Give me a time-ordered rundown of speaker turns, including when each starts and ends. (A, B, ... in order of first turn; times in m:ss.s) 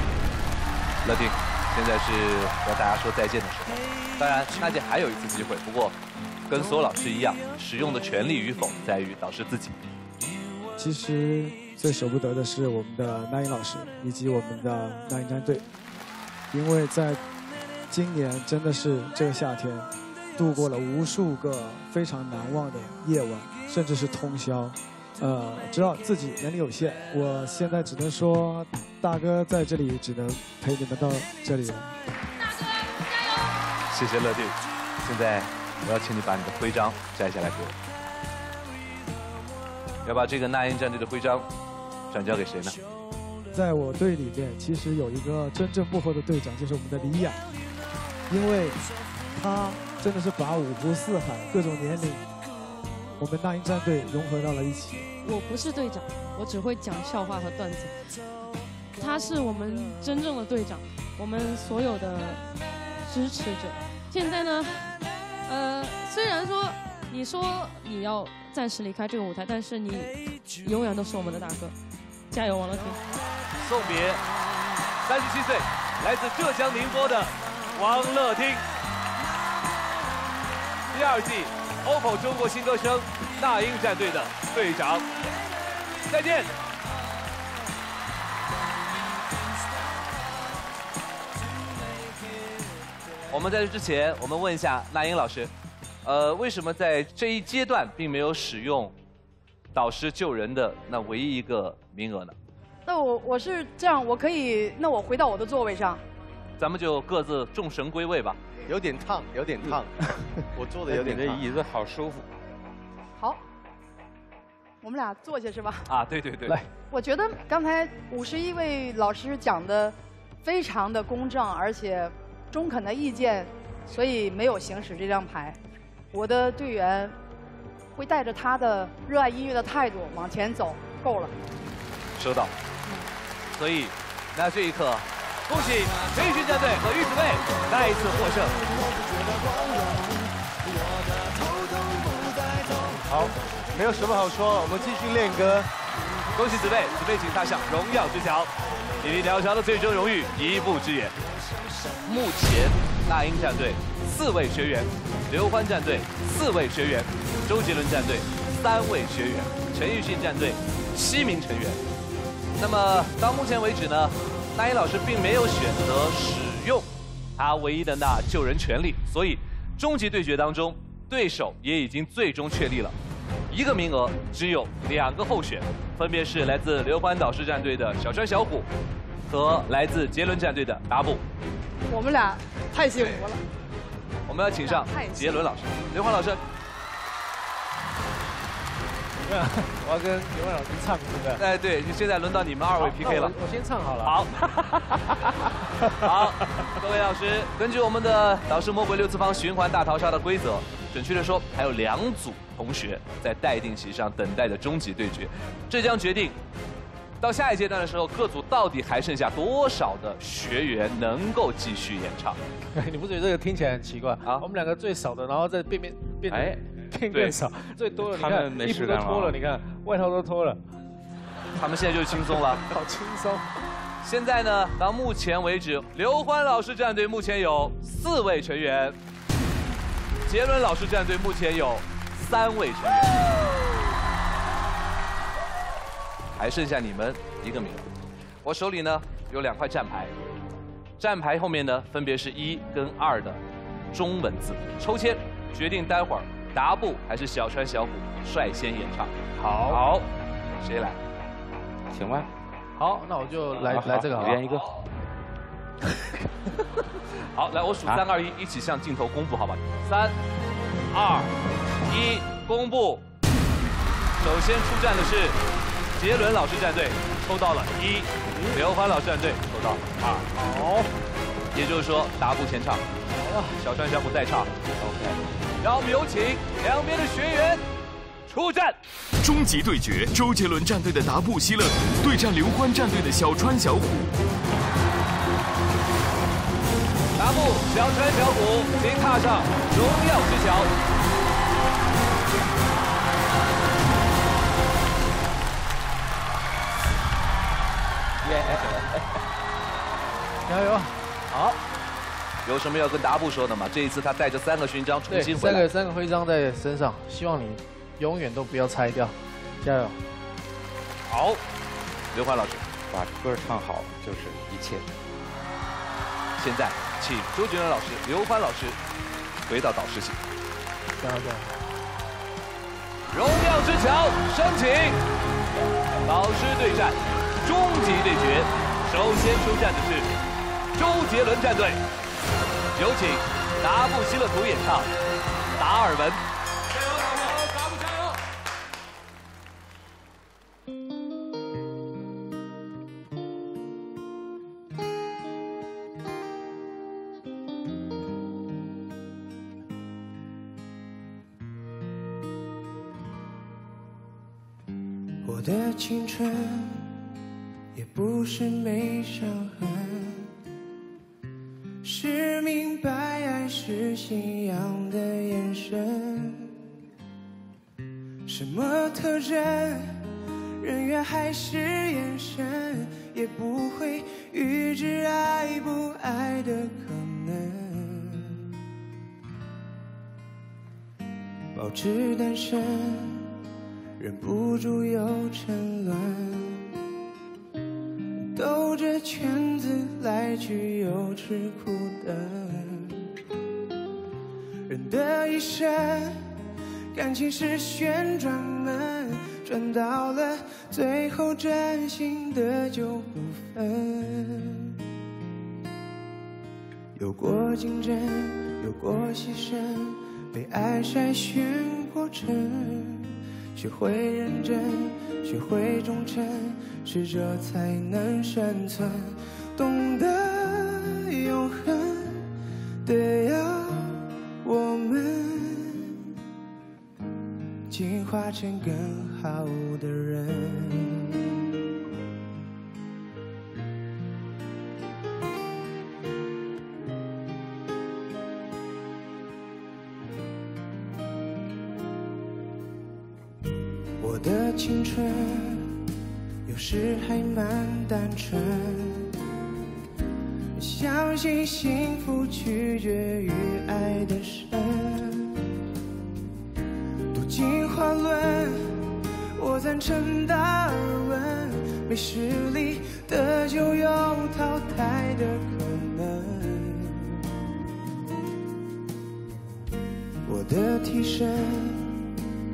0:01.0-0:06.0 A
0:06.5-0:09.8 A
0:10.8-0:15.6 B
0:16.5-0:17.2 B
0:17.9-0:31.9 B
0:33.9-0:37.8 A
0:40.0-0:41.5 A
0:42.1-0:42.8 A
0:43.5-0:47.4 B
0:48.3-0:48.8 B
0:49.4-0:52.2 B
0:53.2-0:55.1 B
0:55.2-0:57.9 C
0:59.0-1:02.4 C
1:03.1-1:04.9 C
1:05.5-1:11.7 C
1:12.3-1:13.0 C
1:13.6-1:14.2 A
1:15.1-1:18.6 A
1:20.9-1:25.0 A
1:26.1-1:26.5 A
1:33.3-1:35.5 A
1:36.0-1:38.9 A
1:39.7-1:42.4 A
1:42.9-1:46.0 D
1:46.6-1:48.4 A
1:48.7-1:49.9 E
1:50.6-1:51.4 E
1:50.9-1:52.3 F
1:54.8-1:55.8 D
1:55.9-1:56.6 A
1:56.9-2:05.6 D
2:06.1-2:07.2 D
2:08.0-2:11.3 D
2:12.2-2:12.5 A
2:13.6-2:18.6 A
2:23.1-2:25.7 E
2:26.4-2:31.2 A
2:32.1-2:41.8 A
2:42.6-2:53.0 A
2:53.5-2:58.7 A
2:59.3-3:01.2 A
3:01.9-3:03.4 D
3:04.3-3:06.4 A
3:04.6-3:05.4 D
3:09.3-3:11.4 G
3:11.4-3:13.4 A
3:12.8-3:15.3 G
3:14.0-3:14.3 A
3:15.8-3:16.3 G
3:16.0-3:26.4 A
3:27.2-3:32.4 A
3:32.7-3:40.6 G
3:36.3-3:36.6 F
3:37.9-3:39.4 F
3:41.6-3:42.6 A
3:42.2-3:43.5 G
3:44.0-3:49.0 A
3:50.3-3:53.2 A
3:56.4-3:57.9 A
3:58.4-4:00.1 A
4:01.0-4:03.4 A
4:03.9-4:09.2 A
4:09.4-4:09.8 G
4:09.7-4:10.1 A
4:10.6-4:11.0 A
4:11.9-4:12.3 F
4:12.8-4:14.5 G
4:13.6-4:14.7 F
4:17.3-4:20.2 A
4:20.9-4:21.3 A
4:21.9-4:23.0 A
4:24.2-4:25.4 A
4:26.0-4:30.2 A
4:30.3-4:30.9 G
4:31.5-4:32.8 A
4:33.2-4:33.5 G
4:33.5-4:34.5 A
4:34.8-4:35.2 F
4:35.6-4:37.6 A
4:38.3-4:38.8 A
4:39.2-4:44.1 H
4:47.2-4:50.7 A
4:58.2-4:58.9 F
5:00.5-5:01.6 G
5:02.5-5:05.7 A
5:05.1-5:10.0 G
5:11.1-5:11.4 A
5:12.1-5:12.6 A
5:12.9-5:14.9 F
5:16.4-5:18.8 A
5:19.5-5:20.2 A
5:21.0-5:21.6 G
5:23.1-5:25.0 A
5:26.1-5:30.1 A
5:30.8-5:31.8 A
5:32.8-5:34.9 A
5:35.6-5:36.2 A
5:55.2-5:57.0 I
5:57.7-6:00.3 I
6:01.8-6:06.6 I
6:08.3-6:10.1 I
6:10.6-6:18.5 I
6:21.6-6:23.3 I
6:24.0-6:26.7 I
6:28.3-6:33.1 I
6:34.7-6:36.4 I
6:36.9-6:44.8 I
6:47.0-7:02.3 I
7:02.8-7:06.1 I
7:07.7-7:11.2 I
7:24.0-7:25.8 I
7:26.5-7:29.1 I
7:30.6-7:35.4 I
7:37.1-7:47.2 I
7:50.3-7:52.1 I